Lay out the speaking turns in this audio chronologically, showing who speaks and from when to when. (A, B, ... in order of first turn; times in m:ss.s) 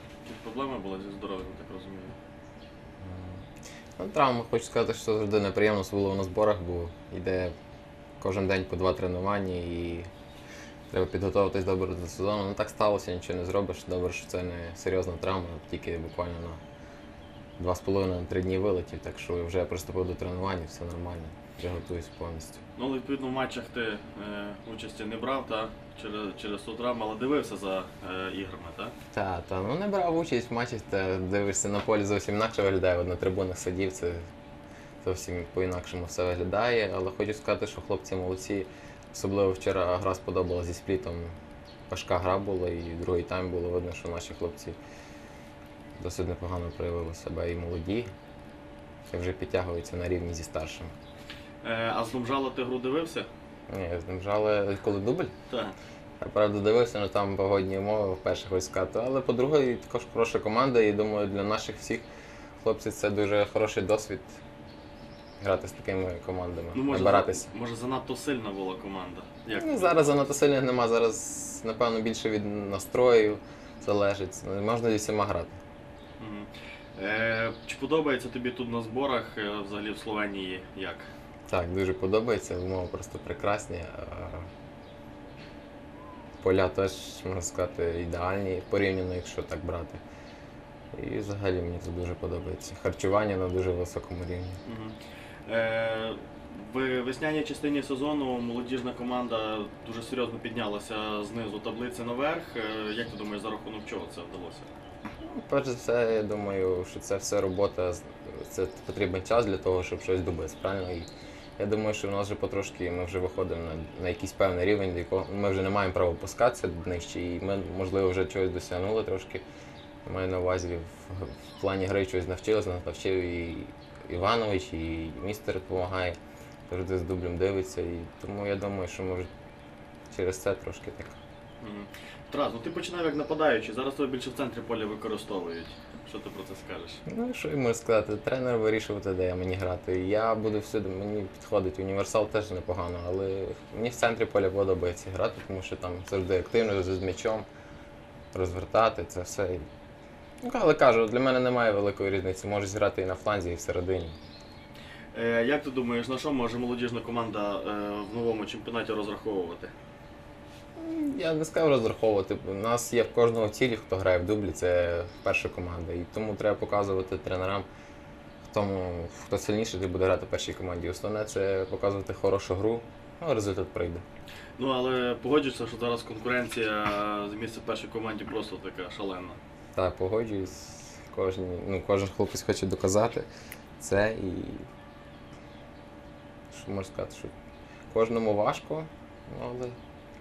0:00.2-0:02.2 A
0:03.0-0:03.5 B
0:04.0-0:07.5 B
0:08.2-0:10.1 B
0:10.9-0:16.6 B
0:17.6-0:22.6 B
0:22.8-0:28.9 A
0:29.1-0:34.2 B
0:35.0-0:41.3 B
0:41.9-0:44.8 B
0:46.0-0:48.1 B
0:49.1-0:50.9 B
0:51.6-0:53.3 A
0:53.7-0:55.3 B
0:55.5-0:55.8 A
0:56.2-1:02.0 B
1:02.6-1:04.4 B
1:05.4-1:07.5 B
1:06.7-1:10.3 A
1:09.5-1:15.6 B
1:16.2-1:21.1 A
1:21.5-1:24.5 B
1:26.4-1:30.0 B
1:30.9-1:34.6 B
1:34.6-1:44.7 A
1:45.2-1:59.4 B
2:00.0-2:06.2 B
2:06.7-2:09.3 B
2:10.1-2:11.2 B
2:11.6-2:17.0 A
2:17.0-2:27.4 B
2:28.3-2:29.6 B
2:30.4-2:34.2 B
2:35.1-2:39.7 A
2:40.8-2:47.7 B
2:48.4-2:54.0 B
2:54.6-2:59.4 A
2:59.7-3:03.3 B
3:03.8-3:04.6 B
3:06.5-3:07.3 B
3:07.9-3:09.7 B